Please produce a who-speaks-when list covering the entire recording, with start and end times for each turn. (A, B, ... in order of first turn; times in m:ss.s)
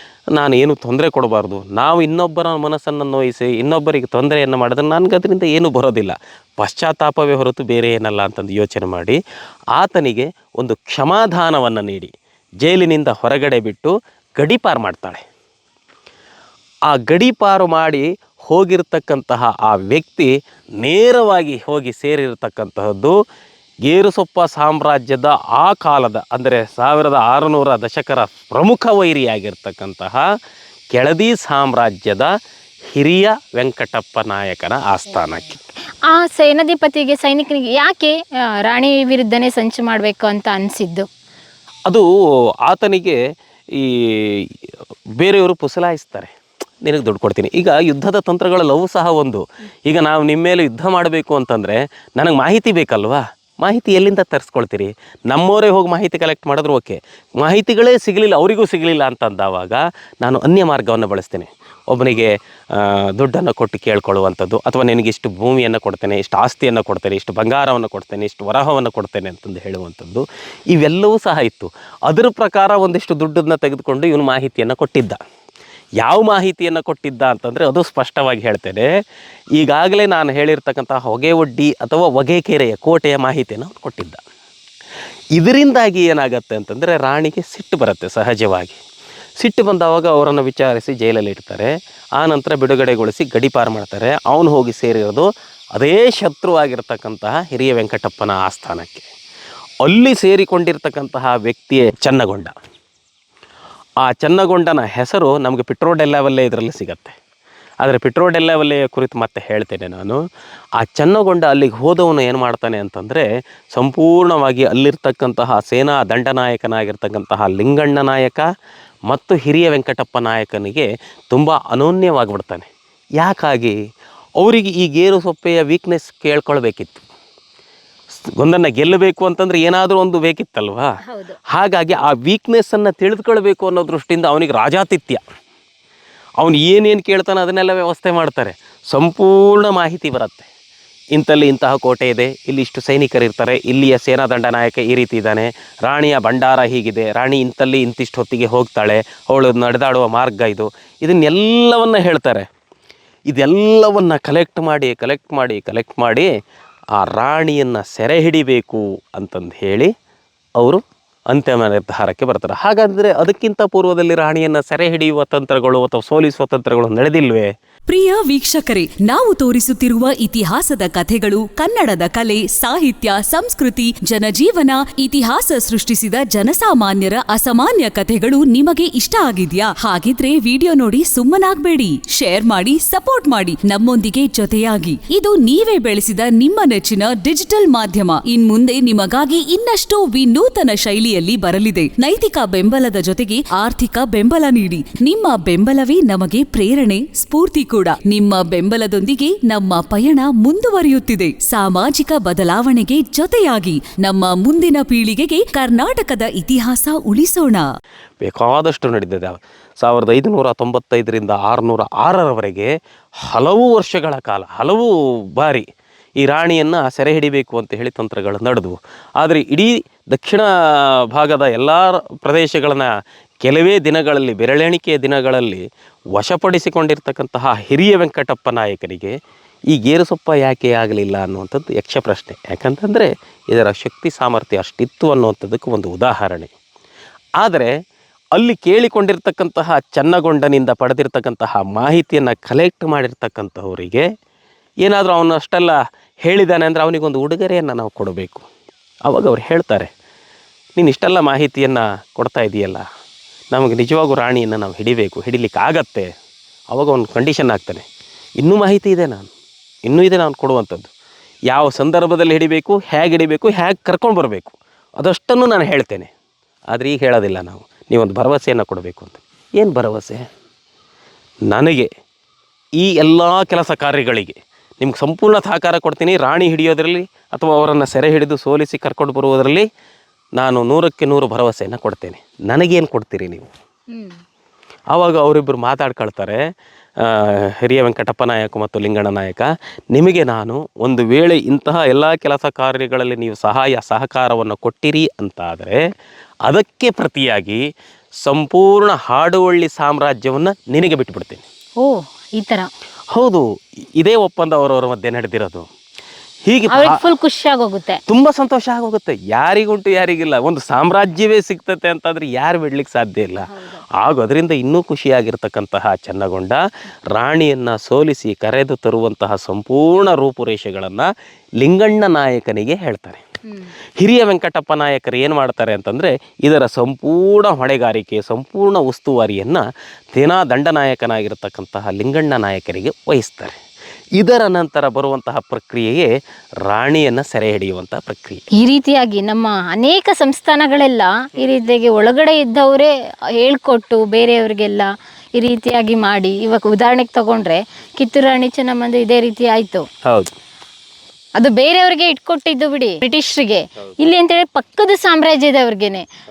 0:00.3-0:09.2 A
0:09.8-0:12.1 A
0:12.6-0:15.2 A
0:16.9-0:23.2 A
0:23.8-0:30.2 A
0:30.9-0:32.3 A
0:32.9-0:35.6 A
0:36.1-0:41.1 B
0:42.7-0:43.2 A
0:43.7-0:44.5 A
0:45.2-0:46.3 A
0:46.8-1:15.2 A
1:16.0-1:18.9 A
1:19.6-1:24.2 A
1:25.4-1:28.8 A
1:29.4-1:39.1 A
1:39.8-1:42.5 A
1:44.0-1:47.2 A
1:47.8-1:50.2 A
1:50.8-1:58.5 A
1:59.1-2:02.7 A
2:03.2-2:03.8 A
2:04.4-2:07.0 A
2:08.4-2:10.9 A
2:11.1-2:11.4 B
2:11.5-2:15.2 A
2:16.4-2:20.5 A
2:21.1-2:32.5 A
2:33.3-2:36.3 A
2:37.0-2:39.9 A
2:40.6-2:47.5 A
2:47.9-3:27.7 C
3:28.2-3:35.7 A
3:36.2-3:42.9 A
3:43.4-3:49.2 A
3:49.7-3:56.5 A
3:57.4-3:57.7 A
3:58.4-4:04.1 A
4:04.8-4:08.4 A
4:09.1-4:09.9 A
4:10.8-4:12.8 A
4:13.5-4:16.1 A
4:16.7-4:17.9 A
4:18.4-4:19.3 A
4:19.9-4:20.9 A
4:21.5-4:26.1 A
4:26.7-4:30.3 A
4:31.5-4:31.9 A
4:32.8-4:39.7 A
4:40.4-4:43.5 A
4:43.9-4:44.2 B
4:44.9-4:46.4 A
4:47.0-4:55.8 A
4:56.5-4:57.6 A
4:58.2-5:01.4 A
5:01.8-5:02.7 B
5:03.1-5:03.4 A
5:04.0-5:05.7 A
5:06.5-5:07.0 A
5:06.7-5:08.0 B
5:08.1-5:16.6 A
5:13.5-5:13.8 B
5:17.1-5:21.1 A
5:21.6-5:23.2 A
5:24.0-5:29.6 A
5:30.2-5:33.6 A
5:34.2-5:36.1 A
5:36.7-5:38.4 A
5:38.6-5:49.8 B
5:50.0-5:50.3 A
5:51.4-5:56.0 B